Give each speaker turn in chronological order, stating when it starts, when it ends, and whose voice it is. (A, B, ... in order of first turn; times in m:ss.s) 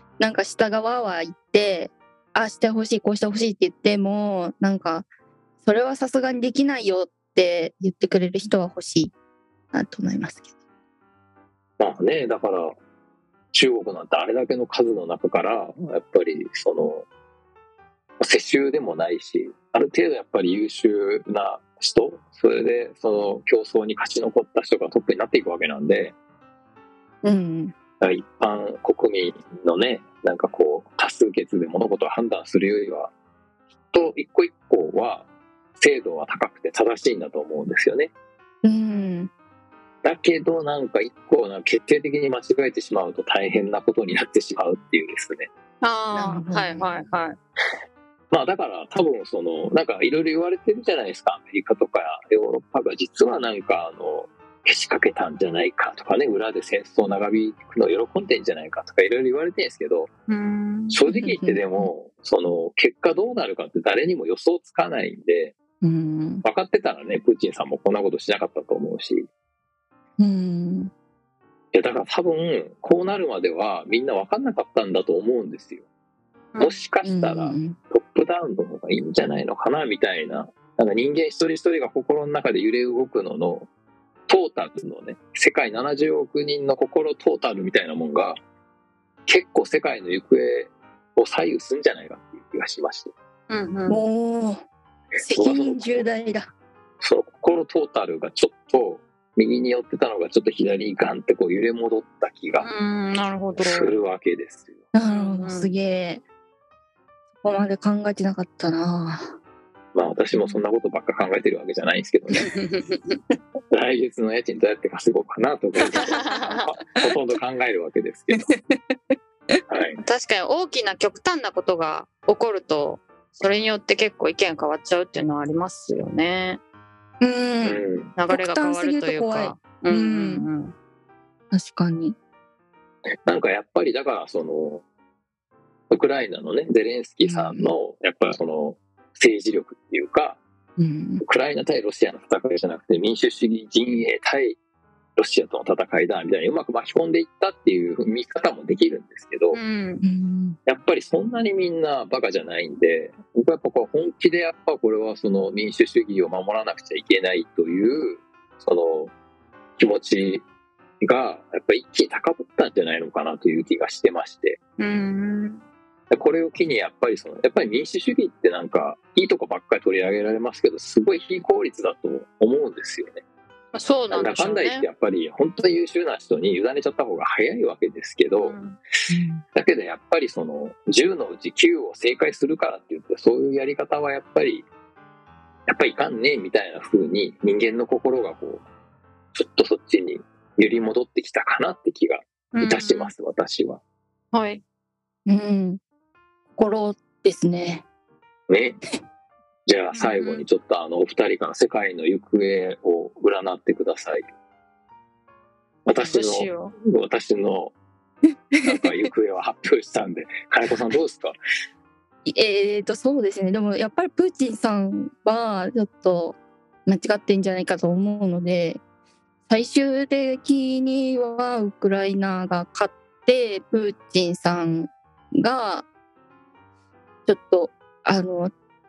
0:00.2-0:05.1 A
0:05.6-0:09.1 A
0:09.7-0:10.5 A
0:11.8-0:12.7 B
0:13.5-0:17.1 B
0:18.2-0:26.2 B
0:27.2-0:27.8 A
0:28.0-0:33.1 B
0:33.9-0:38.1 B
0:38.6-0:39.3 A
0:40.0-0:45.5 B
0:45.8-0:47.4 C
0:46.1-0:47.0 A
0:48.3-1:00.1 B
1:00.3-1:01.0 C
1:00.9-1:05.6 B
1:01.1-1:01.9 A
1:05.8-1:06.4 A
1:06.4-1:09.3 B
1:10.2-1:10.9 A
1:11.7-1:15.8 B
1:16.6-1:23.7 B
1:17.0-1:17.8 A
1:24.3-1:28.4 B
1:29.3-1:33.1 B
1:33.5-1:34.0 C
1:33.9-1:34.6 A
1:35.2-1:36.5 A
1:35.4-1:36.1 B
1:37.0-1:42.7 B
1:42.6-1:43.9 C
1:43.6-1:44.8 B
1:44.9-1:46.2 A
1:45.1-1:45.7 C
1:47.4-1:49.4 A
1:50.0-1:52.5 B
1:52.4-1:53.2 C
1:53.7-1:58.5 B
1:55.9-1:56.6 C
1:58.4-1:58.7 A
1:59.7-2:00.0 B
2:00.0-2:06.6 C
2:07.2-2:10.5 A
2:07.6-2:08.1 B
2:08.2-2:10.7 C
2:11.5-2:12.2 A
2:13.3-2:14.8 B
2:15.9-2:20.4 B
2:17.2-2:17.7 A
2:20.8-2:21.2 A
2:21.2-2:24.6 B
2:25.2-2:29.6 B
2:29.5-2:30.0 C
2:30.0-2:30.6 A
2:30.7-2:39.1 B
2:39.8-2:40.4 B
2:41.0-2:44.6 B
2:44.8-2:45.6 C
2:46.1-2:53.2 B
2:53.7-2:54.9 C
2:54.1-2:58.6 B
2:58.4-2:58.8 C
2:59.1-2:59.4 A
2:59.5-3:04.7 B
3:05.7-3:08.6 B
3:09.4-3:13.8 B
3:12.5-3:13.1 C
3:14.3-3:14.6 C
3:15.3-3:15.8 A
3:16.6-3:17.8 A
3:18.5-3:18.8 B
3:19.7-3:24.3 B
3:20.0-3:20.4 C
3:25.9-3:27.7 B
3:26.0-3:26.8 C
3:28.6-3:29.1 A
3:28.6-3:31.4 B
3:32.3-3:38.8 A
3:39.5-3:45.9 A
3:47.3-3:48.5 A